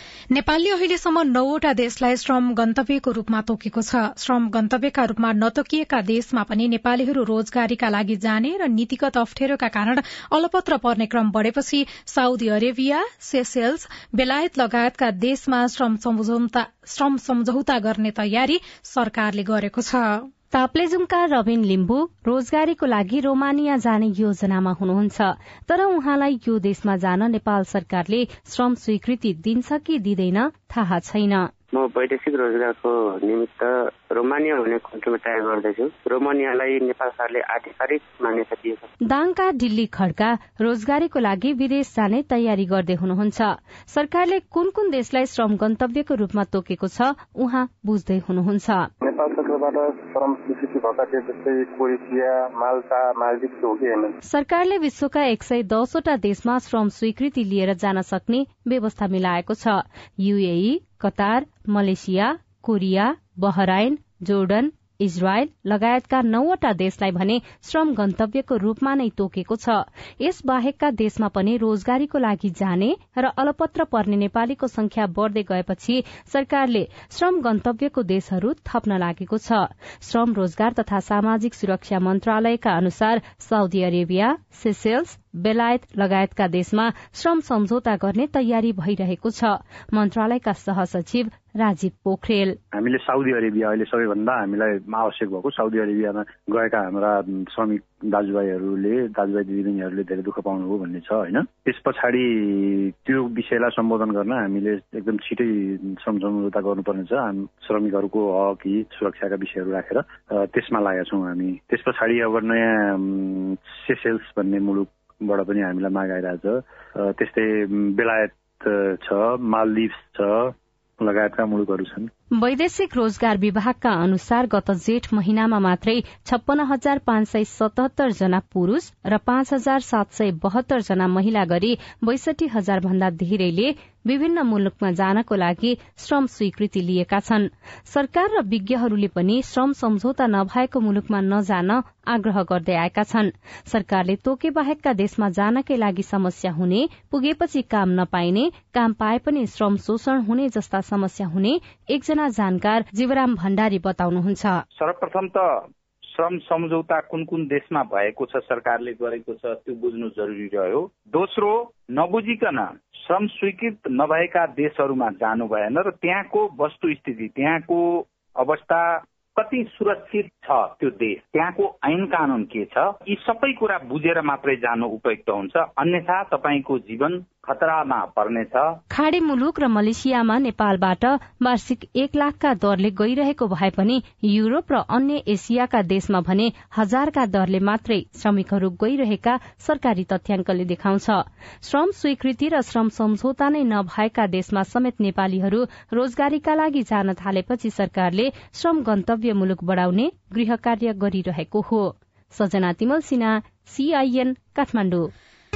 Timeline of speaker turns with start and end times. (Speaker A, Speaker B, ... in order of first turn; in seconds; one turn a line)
Speaker A: 0.3-20.2
Speaker B: 20.5-31.5
Speaker C: 31.7-38.9
Speaker B: 39.1-48.9
Speaker D: 49.1-52.2
Speaker D: 52.9-53.9
Speaker B: 54.2-92.5
Speaker E: 92.7-122.1
Speaker B: 122.4-154.6
Speaker F: 154.8-155.6
Speaker F: 156.1-178.7
Speaker B: 178.9-205.1